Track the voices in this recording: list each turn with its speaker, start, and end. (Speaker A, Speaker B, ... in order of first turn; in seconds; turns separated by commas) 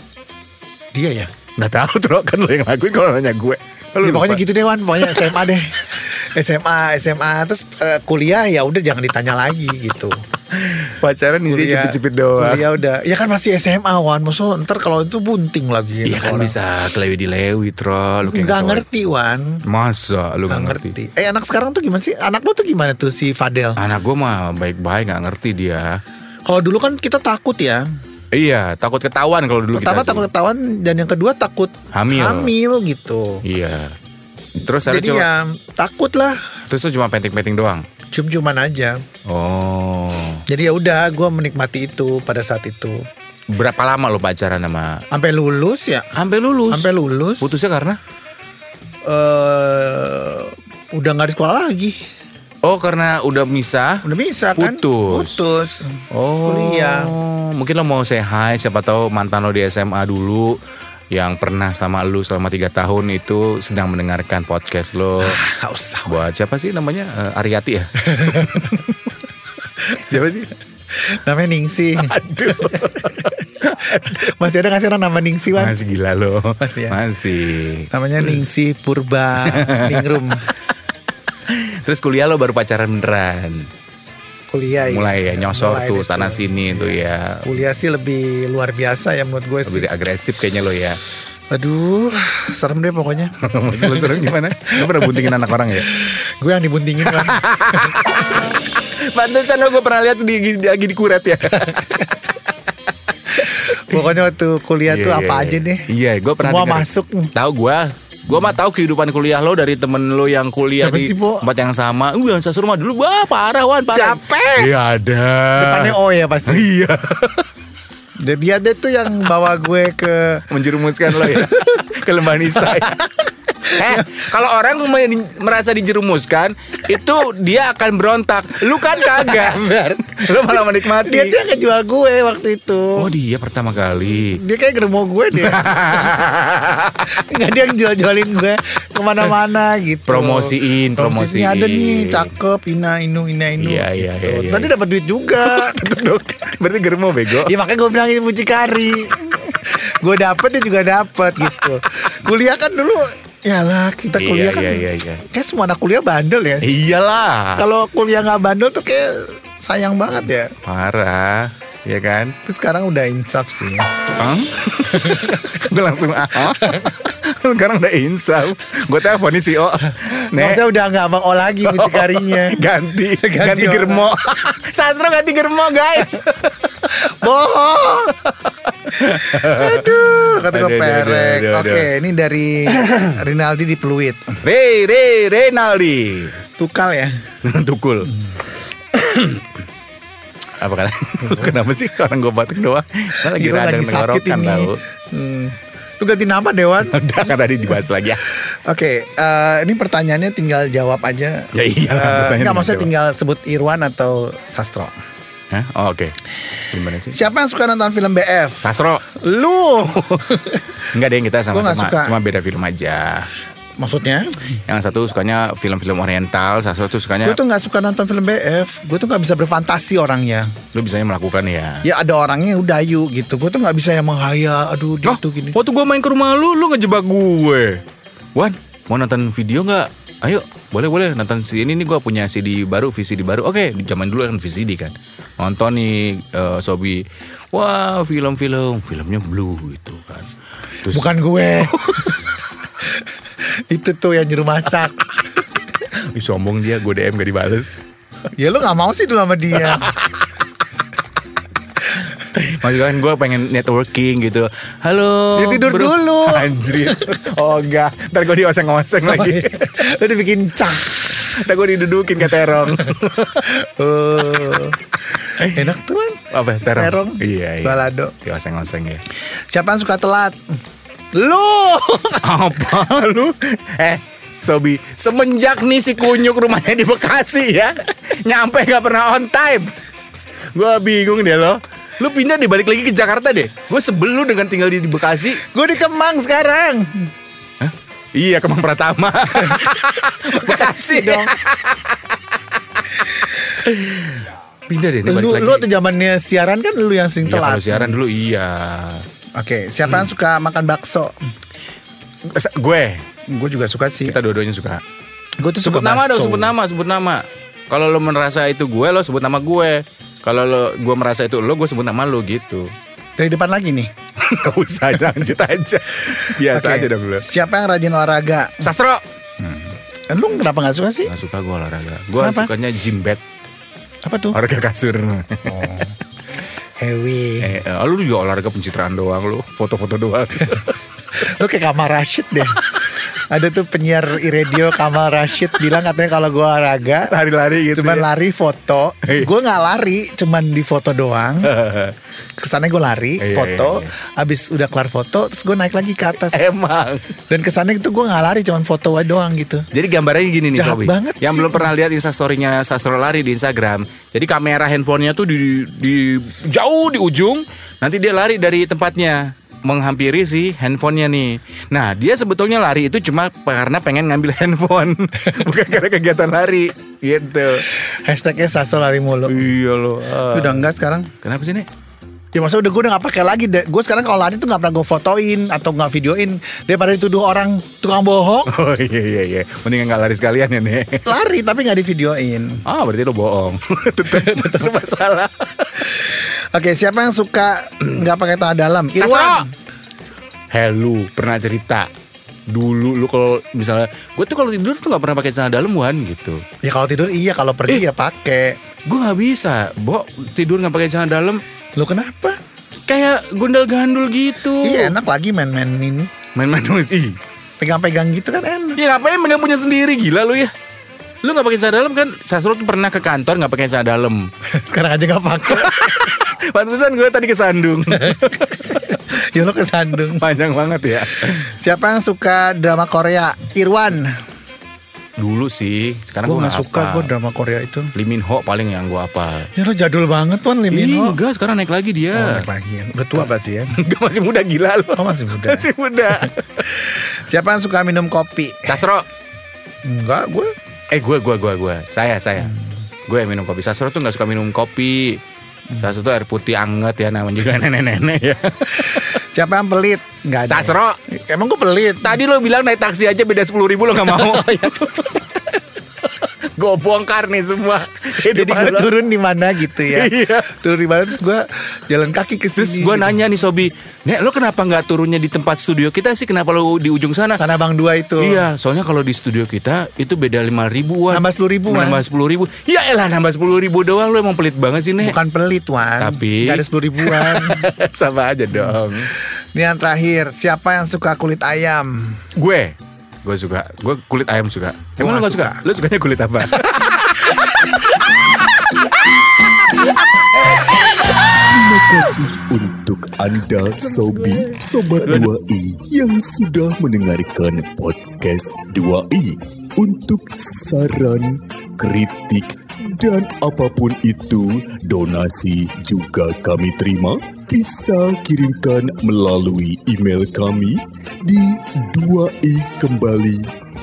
Speaker A: 0.9-1.3, Speaker B: 1.6-4.4, Speaker A: 4.0-10.2, Speaker B: 5.0-5.5, Speaker B: 10.6-12.7, Speaker A: 11.5-16.6, Speaker B: 16.1-18.9, Speaker A: 18.2-19.6, Speaker B: 19.6-20.9, Speaker A: 20.5-23.8, Speaker B: 23.8-26.0, Speaker A: 26.5-27.9, Speaker B: 28.3-30.3, Speaker A: 29.7-33.4, Speaker B: 31.9-32.5, Speaker B: 33.4-34.0, Speaker B: 34.6-35.3, Speaker A: 34.9-36.5, Speaker B: 36.7-37.9, Speaker A: 38.1-39.0, Speaker B: 39.3-40.5, Speaker A: 40.5-43.1, Speaker B: 43.5-45.0, Speaker A: 45.1-46.1, Speaker B: 46.1-46.9, Speaker A: 46.7-47.5, Speaker B: 47.4-48.0, Speaker A: 49.0-52.0, Speaker B: 52.6-55.4, Speaker A: 54.0-57.1, Speaker B: 56.1-60.6, Speaker B: 61.1-65.4, Speaker A: 65.2-66.2, Speaker B: 66.1-68.8, Speaker A: 68.0-68.8, Speaker B: 69.9-70.5, Speaker A: 70.9-75.8, Speaker B: 72.0-74.3, Speaker B: 75.5-78.3, Speaker A: 76.6-77.0, Speaker A: 77.9-80.5, Speaker B: 79.5-80.2, Speaker B: 81.5-83.7, Speaker A: 84.5-89.9, Speaker B: 84.8-87.6, Speaker B: 89.7-91.0, Speaker A: 91.5-98.0, Speaker B: 93.4-95.9, Speaker B: 97.1-102.2, Speaker B: 103.4-104.2, Speaker A: 103.4-107.3, Speaker B: 104.9-117.5, Speaker A: 110.8-111.5, Speaker A: 113.9-114.7, Speaker A: 115.6-116.7, Speaker A: 118.2-120.5, Speaker B: 120.5-123.1, Speaker A: 121.1-121.9, Speaker A: 122.5-124.2, Speaker B: 123.6-131.4, Speaker A: 128.8-133.1, Speaker B: 133.0-134.4, Speaker A: 134.3-136.2, Speaker B: 135.3-137.2, Speaker A: 137.1-145.9, Speaker B: 140.1-142.3, Speaker B: 143.6-144.7, Speaker B: 145.4-147.5, Speaker A: 147.3-156.7, Speaker B: 154.2-155.2, Speaker B: 156.6-157.7, Speaker A: 157.6-160.5, Speaker B: 160.6-162.4, Speaker A: 162.4-163.9, Speaker B: 164.2-170.6, Speaker A: 164.8-165.6, Speaker A: 166.5-167.0, Speaker A: 170.3-172.6, Speaker B: 171.6-176.9, Speaker A: 173.2-174.1, Speaker A: 176.9-178.2, Speaker B: 178.7-181.9, Speaker A: 179.0-184.4, Speaker B: 182.7-183.2, Speaker B: 184.4-186.4, Speaker A: 186.6-187.2, Speaker B: 187.4-188.2, Speaker B: 188.9-189.5, Speaker B: 190.6-194.8, Speaker A: 193.2-197.0, Speaker B: 196.8-198.2, Speaker A: 198.4-204.9, Speaker B: 201.5-202.9, Speaker B: 205.5-207.2, Speaker A: 207.1-210.7, Speaker B: 208.6-209.1, Speaker B: 209.9-213.3, Speaker A: 211.5-212.2, Speaker A: 213.8-214.3, Speaker B: 214.7-217.4, Speaker A: 217.2-220.6, Speaker B: 220.7-221.9, Speaker A: 221.8-225.6, Speaker B: 225.0-227.8, Speaker B: 228.4-240.3, Speaker B: 240.8-242.3, Speaker A: 240.9-245.2, Speaker B: 245.9-247.8, Speaker A: 248.3-249.9, Speaker B: 249.6-250.2, Speaker B: 252.3-259.9, Speaker A: 255.4-257.2, Speaker A: 259.0-261.0, Speaker B: 261.0-263.5, Speaker A: 262.9-268.1, Speaker B: 265.4-265.6, Speaker B: 266.3-269.0, Speaker A: 269.5-270.4, Speaker A: 271.1-272.3, Speaker B: 272.2-279.7, Speaker B: 280.5-285.4, Speaker A: 285.4-287.1, Speaker B: 287.6-292.0, Speaker A: 289.4-291.3, Speaker B: 293.6-295.7, Speaker A: 295.1-298.0, Speaker B: 297.2-299.1, Speaker A: 299.4-301.1, Speaker B: 302.2-303.1, Speaker A: 303.3-304.2, Speaker B: 304.1-304.8, Speaker A: 305.4-306.5, Speaker B: 305.6-312.7, Speaker A: 313.2-313.9, Speaker B: 314.2-317.3, Speaker A: 316.4-318.7, Speaker B: 318.6-319.0, Speaker A: 319.4-321.1, Speaker B: 321.1-323.2, Speaker A: 322.2-322.5, Speaker A: 324.0-324.4, Speaker B: 324.3-325.8, Speaker A: 325.5-326.0, Speaker A: 326.8-327.6, Speaker B: 327.4-330.8, Speaker A: 331.2-337.1, Speaker B: 337.1-338.1, Speaker A: 337.7-341.5, Speaker B: 339.0-339.3, Speaker B: 341.4-342.0, Speaker A: 342.4-346.5, Speaker B: 343.2-343.9, Speaker B: 346.1-347.1, Speaker A: 347.3-349.7, Speaker B: 349.7-367.7, Speaker A: 350.5-351.7, Speaker A: 367.7-369.5, Speaker B: 369.3-370.7, Speaker A: 370.2-371.1, Speaker B: 371.2-371.7, Speaker A: 372.3-378.5, Speaker B: 378.5-381.1, Speaker A: 381.1-382.6, Speaker B: 382.6-385.9, Speaker A: 384.1-384.7, Speaker A: 385.8-389.5, Speaker B: 389.0-389.5, Speaker B: 390.5-391.9, Speaker B: 392.5-396.4, Speaker A: 396.6-398.6, Speaker B: 398.9-401.4, Speaker A: 401.8-402.4, Speaker B: 402.9-404.9, Speaker A: 404.6-406.1, Speaker B: 406.4-407.2, Speaker A: 407.6-408.8, Speaker B: 408.8-410.5, Speaker B: 411.2-414.3, Speaker A: 414.5-416.3, Speaker B: 415.4-419.0, Speaker A: 418.0-420.3, Speaker B: 420.1-421.5, Speaker A: 421.3-424.2, Speaker B: 425.2-427.1, Speaker A: 426.2-427.9, Speaker B: 427.9-429.5, Speaker A: 429.6-431.2, Speaker B: 430.7-432.5, Speaker A: 432.1-433.8, Speaker B: 433.7-436.7, Speaker A: 434.9-438.8, Speaker B: 438.7-439.1, Speaker A: 439.8-440.5, Speaker B: 440.9-445.2, Speaker B: 445.8-449.2, Speaker A: 448.8-452.2, Speaker B: 450.5-451.0, Speaker B: 452.0-459.0, Speaker A: 454.0-454.7, Speaker A: 458.3-463.2, Speaker B: 459.8-460.6, Speaker B: 462.6-467.4, Speaker A: 467.4-468.4, Speaker B: 468.2-475.2, Speaker A: 471.1-472.0, Speaker A: 475.0-477.7, Speaker B: 476.0-479.1, Speaker A: 478.5-478.9, Speaker A: 479.5-482.3, Speaker B: 482.4-488.3, Speaker A: 485.0-485.6, Speaker C: 491.3-513.5, Speaker B: 495.1-495.3